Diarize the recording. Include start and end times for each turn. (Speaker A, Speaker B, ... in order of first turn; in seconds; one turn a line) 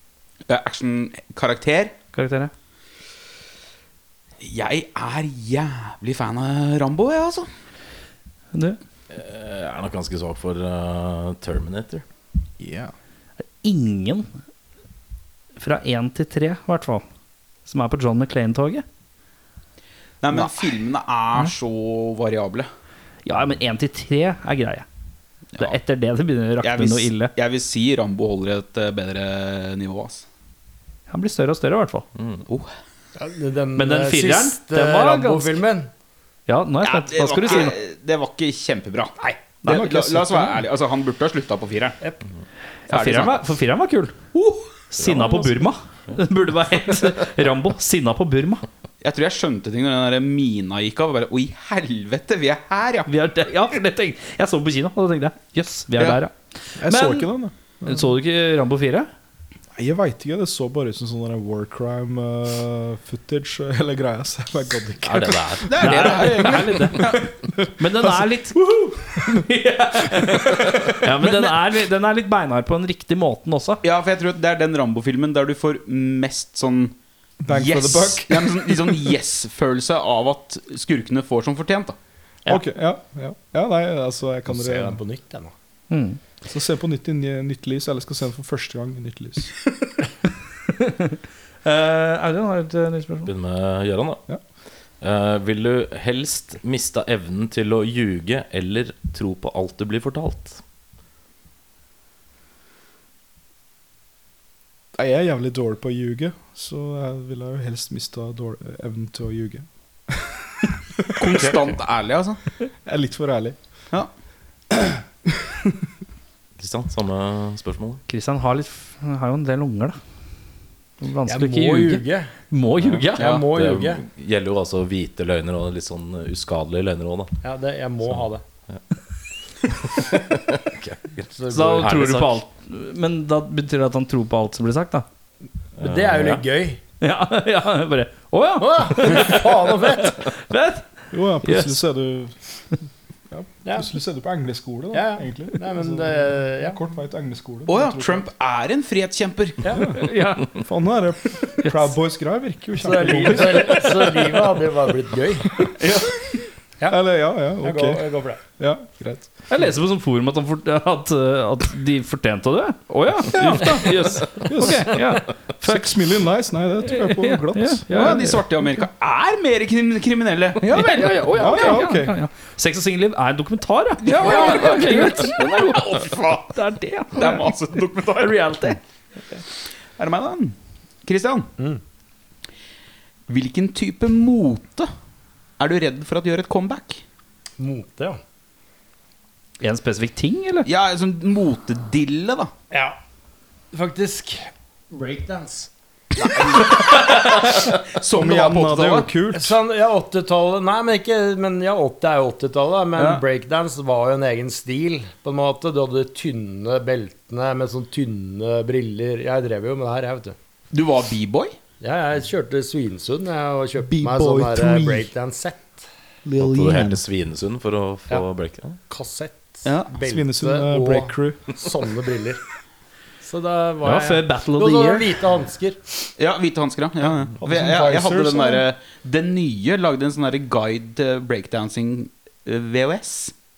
Speaker A: 0.5-1.9
Speaker B: 2.1-2.5
Speaker A: 4.4-7.5
Speaker B: 8.5-8.8
Speaker C: 9.1-12.0
Speaker D: 12.6-12.9
Speaker B: 13.6-14.3
Speaker B: 15.6-17.1
Speaker B: 17.6-18.8
Speaker A: 20.2-22.7
Speaker B: 23.2-24.9
Speaker B: 25.6-27.3
Speaker A: 26.6-30.2
Speaker B: 31.1-32.0
Speaker A: 32.5-32.7
Speaker E: 33.1-35.9
Speaker B: 33.8-35.6
Speaker B: 36.5-37.7
Speaker A: 36.8-42.0
Speaker D: 39.7-40.5
Speaker B: 42.9-44.2
Speaker A: 42.9-43.4
Speaker A: 44.3-44.7
Speaker B: 44.9-48.6
Speaker A: 49.0-53.1
Speaker B: 53.1-57.3
Speaker D: 56.8-58.1
Speaker B: 57.8-59.1
Speaker D: 59.7-65.8
Speaker C: 65.0-66.0
Speaker A: 65.7-67.2
Speaker B: 65.8-67.2
Speaker D: 67.0-69.4
Speaker B: 67.8-73.8
Speaker D: 70.2-71.0
Speaker A: 73.8-76.9
Speaker D: 77.4-79.0
Speaker A: 77.5-82.0
Speaker D: 82.5-85.0
Speaker E: 84.5-85.5
Speaker B: 85.9-86.2
Speaker D: 86.4-89.5
Speaker B: 90.7-93.3
Speaker C: 93.2-94.2
Speaker C: 95.0-100.6
Speaker D: 104.9-111.6
Speaker A: 111.2-112.4
Speaker D: 112.8-113.6
Speaker D: 114.7-115.8
Speaker C: 116.6-118.0
Speaker B: 118.1-120.0
Speaker B: 121.0-123.4
Speaker E: 121.2-122.3
Speaker C: 122.8-127.3
Speaker E: 123.1-124.0
Speaker A: 123.2-123.5
Speaker E: 127.4-128.4
Speaker C: 128.1-128.8
Speaker C: 129.8-132.3
Speaker E: 131.3-132.1
Speaker B: 131.5-135.0
Speaker C: 135.8-136.4
Speaker E: 135.8-136.8
Speaker B: 137.0-140.9
Speaker E: 138.6-140.3
Speaker D: 141.1-142.3
Speaker B: 141.4-141.8
Speaker D: 143.3-148.2
Speaker E: 143.6-143.9
Speaker E: 144.9-146.8
Speaker A: 147.7-149.7
Speaker D: 149.7-154.0
Speaker B: 150.0-150.6
Speaker B: 151.6-151.9
Speaker E: 152.8-155.7
Speaker B: 153.5-154.0
Speaker A: 155.8-156.2
Speaker D: 156.9-158.1
Speaker E: 157.6-158.4
Speaker D: 158.6-159.3
Speaker B: 159.5-166.0
Speaker D: 163.3-165.0
Speaker D: 165.6-168.1
Speaker B: 166.9-168.4
Speaker A: 167.9-171.3
Speaker B: 170.6-177.5
Speaker D: 171.3-172.2
Speaker A: 174.0-176.3
Speaker A: 177.1-178.7
Speaker B: 178.2-178.8
Speaker A: 180.0-181.5
Speaker A: 183.3-184.9
Speaker A: 185.6-187.0
Speaker E: 187.6-188.2
Speaker B: 189.6-190.7
Speaker A: 190.6-192.5
Speaker E: 192.7-193.0
Speaker E: 193.7-195.7
Speaker A: 196.2-199.1
Speaker D: 198.1-199.6
Speaker E: 199.3-210.3
Speaker A: 202.9-203.2
Speaker A: 210.7-211.6
Speaker E: 211.8-215.9
Speaker D: 213.8-215.1
Speaker D: 216.2-217.0
Speaker C: 216.4-218.8
Speaker E: 218.9-222.4
Speaker A: 219.6-219.9
Speaker D: 220.0-221.5
Speaker E: 223.2-225.8
Speaker B: 223.8-225.2
Speaker A: 226.2-233.3
Speaker D: 227.4-228.6